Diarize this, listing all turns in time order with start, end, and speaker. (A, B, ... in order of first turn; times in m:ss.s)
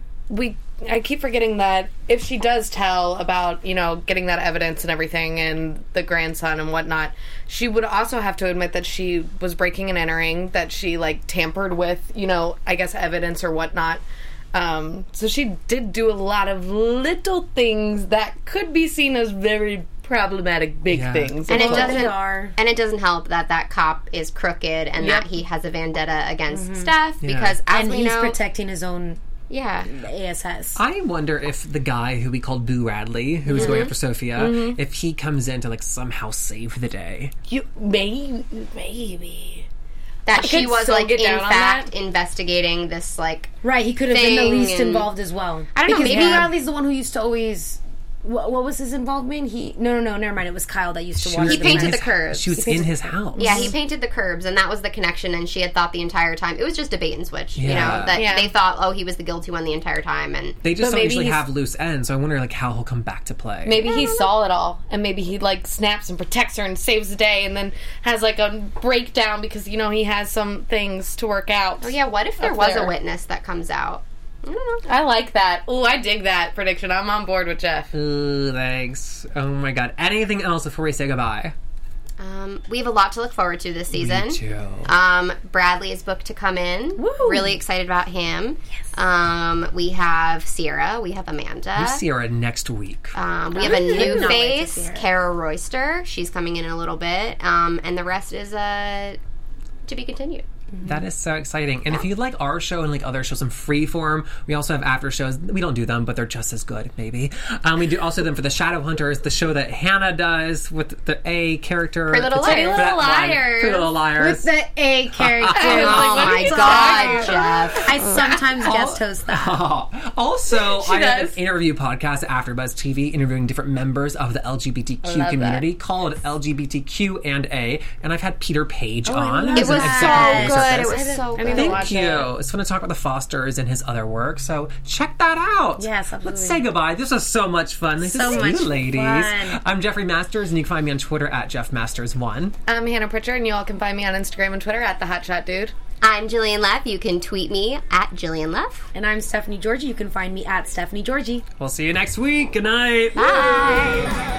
0:00.3-0:14.0 A
0:14.5-0:22.1 A
0:20.9-0:21.3 B
0:21.5-0:28.4 C
0:21.5-0:22.6 D
0:25.0-0:25.3 A
0:26.5-0:26.9 D
0:27.2-0:27.6 B
0:27.7-0:29.2 D
0:29.5-0:29.9 C
0:29.8-0:30.8 D
0:30.7-0:37.3 B
0:33.5-0:34.8 A
0:33.5-0:33.9 C
0:37.5-0:39.6 A
0:40.2-0:43.5 C
0:40.3-0:41.9 A
0:43.6-0:53.7 D
0:44.1-0:45.1 C
0:45.7-0:46.5 C
0:46.1-0:46.5 A
0:51.2-0:53.7 B
0:51.4-0:52.6 C
0:53.4-0:53.7 A
0:53.4-1:00.6 C
0:57.6-0:58.2 B
0:58.1-0:58.5 A
1:00.6-1:03.8 B
1:00.8-1:01.4 A
1:03.6-1:12.9 A
1:03.8-1:04.3 C
1:11.8-1:14.8 C
1:14.8-1:17.9 A
1:17.9-1:21.5 B
1:22.2-1:32.0 C
1:23.9-1:24.9 B
1:27.0-1:27.6 D
1:31.8-1:33.1 B
1:33.1-1:39.2 C
1:33.5-1:35.0 D
1:33.6-1:34.3 A
1:39.8-1:40.4 C
1:40.8-1:54.5 B
1:52.1-1:53.9 C
1:52.4-1:52.9 A
1:54.2-1:59.6 D
1:55.2-1:56.2 B
1:55.5-1:58.2 A
1:55.6-1:58.4 C
1:58.6-2:22.6 B
2:00.5-2:01.4 A
2:05.0-2:05.6 A
2:09.0-2:11.5 D
2:09.5-2:11.9 C
2:10.3-2:12.3 A
2:15.8-2:16.6 D
2:18.0-2:19.6 D
2:22.7-2:25.7 A
2:26.0-2:28.9 C
2:28.9-2:31.4 D
2:31.6-2:33.2 B
2:33.2-2:34.1 C